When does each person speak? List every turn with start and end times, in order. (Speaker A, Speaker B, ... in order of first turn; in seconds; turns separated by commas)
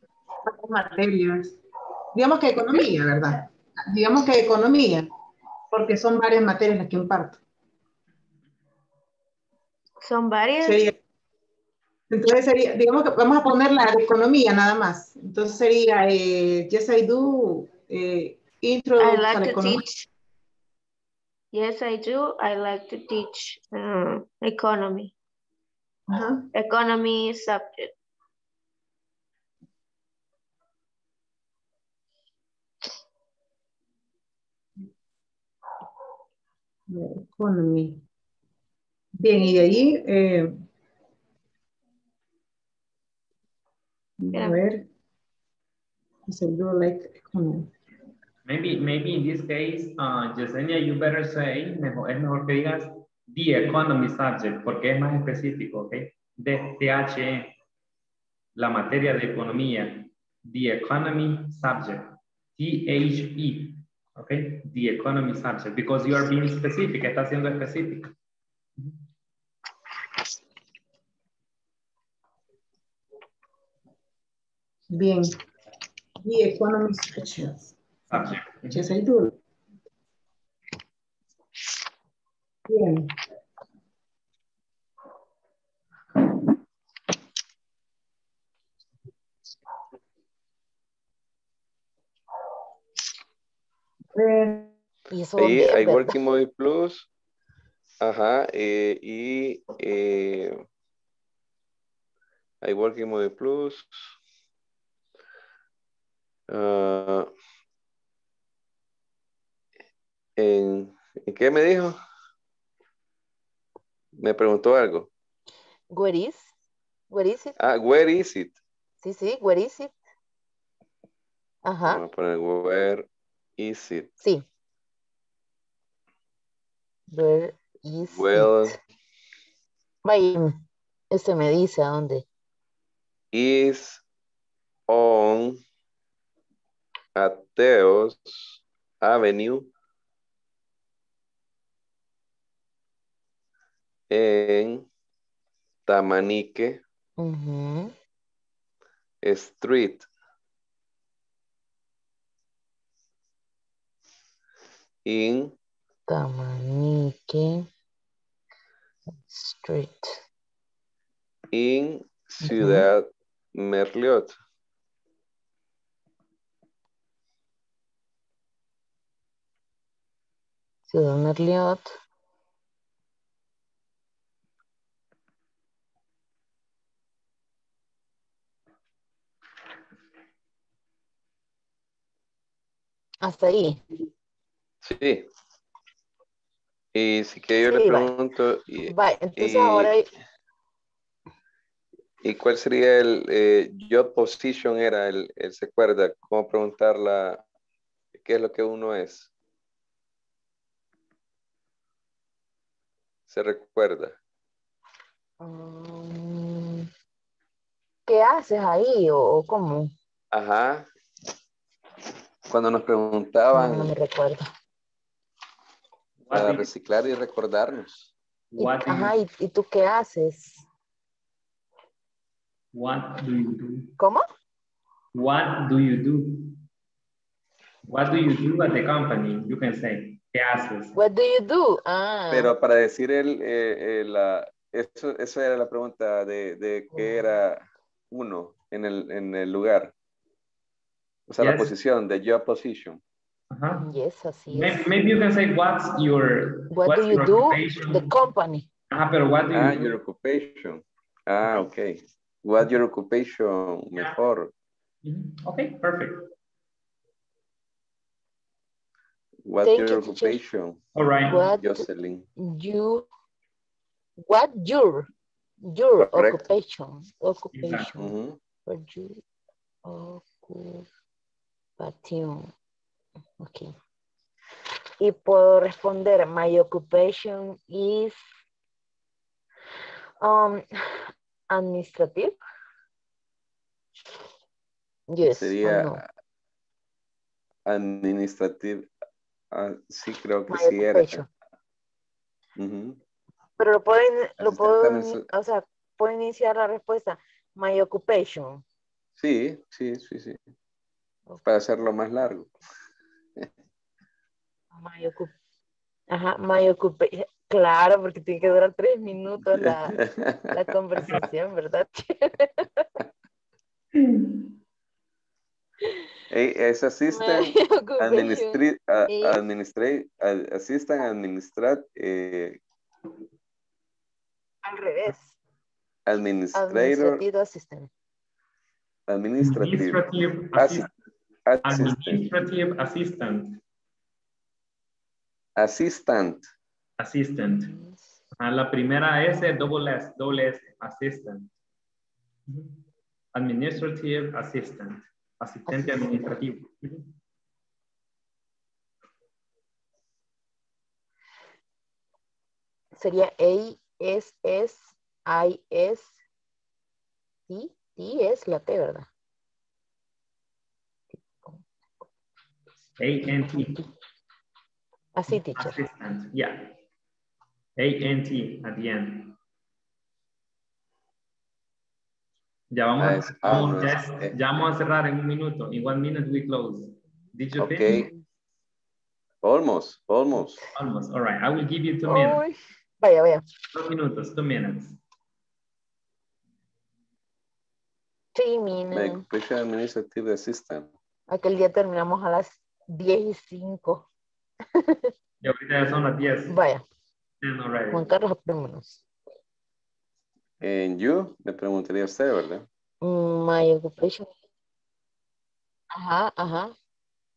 Speaker A: 0.5-1.6, Speaker A: 2.1-5.1, Speaker A: 5.7-7.4, Speaker B: 10.0-10.9, Speaker A: 10.6-10.9, Speaker A: 12.1-19.8, Speaker B: 19.0-20.1, Speaker B: 21.5-25.1, Speaker A: 26.1-26.5, Speaker B: 26.5-27.9, Speaker A: 36.9-38.0, Speaker A: 39.2-40.5, Speaker A: 44.2-44.9, Speaker B: 44.3-44.6, Speaker A: 46.3-47.7, Speaker C: 48.5-57.5, Speaker C: 58.6-68.1, Speaker A: 74.9-75.3, Speaker A: 76.2-77.6, Speaker C: 78.1-78.8, Speaker A: 78.7-79.3, Speaker A: 82.7-83.0, Speaker A: 94.2-94.7, Speaker D: 95.1-96.2, Speaker E: 95.4-97.1, Speaker E: 98.0-100.6, Speaker E: 102.6-104.1, Speaker E: 106.5-107.3, Speaker E: 110.4-112.0, Speaker E: 114.2-115.1, Speaker D: 115.9-116.5, Speaker D: 117.1-117.6, Speaker E: 117.6-118.6, Speaker D: 119.0-119.9, Speaker D: 121.7-122.0, Speaker E: 121.8-123.1, Speaker E: 123.6-124.1, Speaker D: 127.1-128.8, Speaker E: 128.1-128.8, Speaker D: 130.0-130.6, Speaker D: 131.1-132.2, Speaker E: 133.3-134.0, Speaker E: 134.9-135.6, Speaker E: 137.2-139.7, Speaker E: 144.1-144.9, Speaker E: 145.9-146.8, Speaker D: 147.2-147.9, Speaker E: 149.2-150.1, Speaker E: 155.1-155.5, Speaker D: 156.1-157.7, Speaker D: 159.1-160.2, Speaker E: 161.5-164.4, Speaker D: 162.4-162.9, Speaker D: 170.9-171.9, Speaker D: 183.2-183.8, Speaker E: 184.8-185.3, Speaker E: 186.9-189.9, Speaker D: 187.6-188.1, Speaker D: 188.9-190.1, Speaker E: 192.2-197.4, Speaker E: 198.2-199.3, Speaker E: 203.3-204.2, Speaker D: 205.4-206.9, Speaker D: 208.1-209.9, Speaker E: 210.3-210.9, Speaker E: 212.5-213.9, Speaker D: 213.5-214.4, Speaker C: 216.2-216.7, Speaker E: 216.3-218.1, Speaker C: 218.5-219.2, Speaker D: 218.6-220.7, Speaker C: 222.7-223.9, Speaker D: 224.0-224.2, Speaker C: 225.1-226.6, Speaker C: 227.9-230.9, Speaker D: 230.9-232.5, Speaker E: 232.3-239.9, Speaker D: 236.9-237.2, Speaker E: 241.3-243.0, Speaker C: 241.4-241.7, Speaker C: 243.5-243.8, Speaker D: 243.8-244.9, Speaker C: 244.5-248.1, Speaker D: 246.7-248.7, Speaker C: 248.9-249.9, Speaker E: 249.5-254.5, Speaker C: 255.0-256.3, Speaker E: 259.4-260.8, Speaker D: 259.6-260.4, Speaker C: 260.9-261.4, Speaker D: 261.3-263.1, Speaker E: 261.4-262.3, Speaker D: 264.2-265.1, Speaker D: 265.6-269.2, Speaker E: 266.0-266.4, Speaker C: 267.5-267.9, Speaker E: 268.0-268.4, Speaker D: 269.8-270.9, Speaker D: 271.8-272.5, Speaker D: 273.4-273.8, Speaker D: 275.0-278.2, Speaker D: 280.2-282.4, Speaker D: 285.1-286.0, Speaker E: 285.3-286.1, Speaker E: 287.7-288.9, Speaker E: 289.5-291.2, Speaker D: 290.5-291.3, Speaker E: 292.6-293.0, Speaker D: 293.6-298.6, Speaker E: 294.4-295.2, Speaker E: 299.2-300.4, Speaker E: 301.4-302.5, Speaker D: 304.7-305.3, Speaker D: 306.1-310.0, Speaker E: 309.6-310.3, Speaker D: 310.5-312.9, Speaker E: 316.3-322.6, Speaker D: 317.1-319.4, Speaker D: 324.6-325.3, Speaker E: 326.1-327.2, Speaker D: 326.5-327.9, Speaker E: 329.1-330.0, Speaker C: 329.4-330.9, Speaker E: 330.5-330.9, Speaker E: 331.5-332.2, Speaker C: 331.6-333.6, Speaker E: 335.6-336.5, Speaker C: 337.0-337.7, Speaker D: 337.6-338.1, Speaker C: 338.4-341.5, Speaker C: 342.5-342.8, Speaker C: 343.3-347.1, Speaker D: 345.7-346.1, Speaker D: 352.9-356.2, Speaker D: 357.5-359.1, Speaker D: 361.1-361.6, Speaker C: 363.0-363.8, Speaker D: 363.3-363.9, Speaker D: 365.1-365.8, Speaker C: 365.3-366.7, Speaker C: 367.8-369.4, Speaker C: 372.7-378.1, Speaker E: 373.0-374.4, Speaker E: 377.6-378.1, Speaker E: 379.4-380.6, Speaker C: 380.8-382.4, Speaker D: 382.1-383.4, Speaker C: 383.7-385.0, Speaker D: 388.4-389.2, Speaker E: 388.9-390.9, Speaker D: 391.3-394.1, Speaker D: 394.8-395.1, Speaker C: 395.4-396.6, Speaker D: 396.5-396.8, Speaker C: 397.4-398.1, Speaker D: 397.9-399.0, Speaker E: 400.6-402.7, Speaker D: 403.0-404.3, Speaker D: 405.9-406.7